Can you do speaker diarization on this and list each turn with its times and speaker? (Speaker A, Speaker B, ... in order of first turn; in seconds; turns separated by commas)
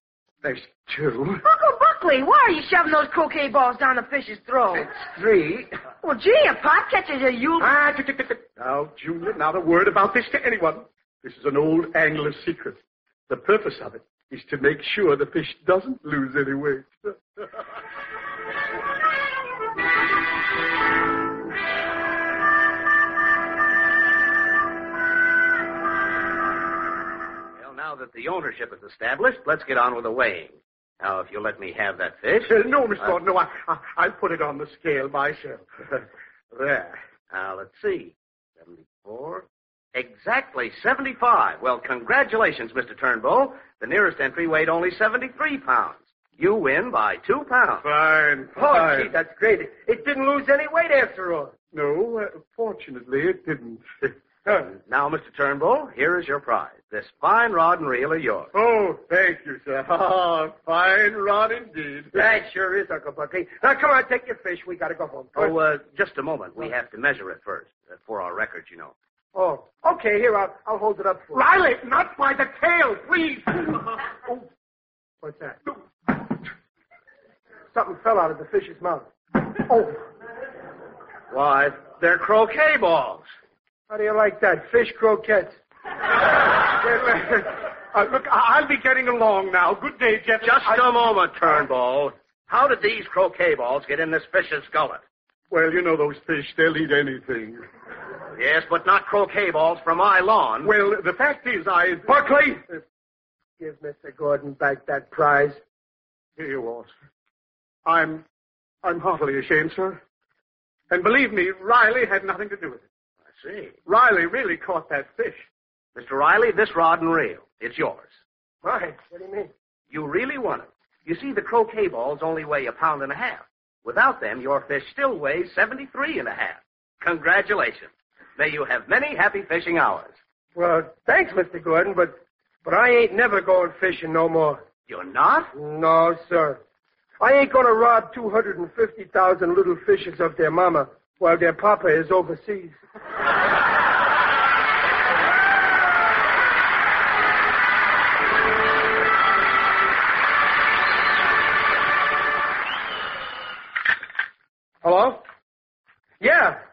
Speaker A: 0.4-1.4, Speaker B: 1.4-4.9, Speaker C: 4.9-5.7, Speaker B: 6.0-7.7, Speaker A: 7.6-12.8, Speaker A: 13.3-17.4, Speaker D: 27.6-33.1, Speaker A: 32.4-35.7, Speaker A: 36.5-37.0, Speaker D: 37.3-47.9, Speaker A: 47.8-49.1, Speaker C: 48.5-51.5, Speaker A: 51.7-54.1, Speaker C: 54.4-54.7, Speaker D: 54.8-58.5, Speaker A: 58.5-62.2, Speaker C: 62.1-65.6, Speaker D: 65.3-68.9, Speaker C: 69.3-71.5, Speaker A: 71.3-74.5, Speaker C: 75.2-75.7, Speaker C: 77.7-80.0, Speaker D: 81.3-83.3, Speaker C: 83.9-85.5, Speaker A: 86.8-91.1, Speaker D: 90.4-95.0, Speaker A: 95.5-97.6, Speaker D: 98.3-100.7, Speaker A: 100.6-102.2, Speaker C: 102.1-102.6, Speaker C: 103.6-105.6, Speaker A: 106.4-106.9, Speaker A: 107.8-108.2, Speaker A: 108.8-110.0, Speaker A: 110.9-112.8, Speaker D: 113.3-113.7, Speaker A: 113.8-115.5, Speaker D: 116.0-118.1, Speaker C: 118.6-119.5, Speaker D: 119.9-130.1, Speaker C: 130.6-134.6, Speaker D: 134.9-135.5, Speaker C: 135.5-136.6, Speaker C: 137.2-142.8, Speaker C: 154.8-155.2, Speaker C: 156.2-156.6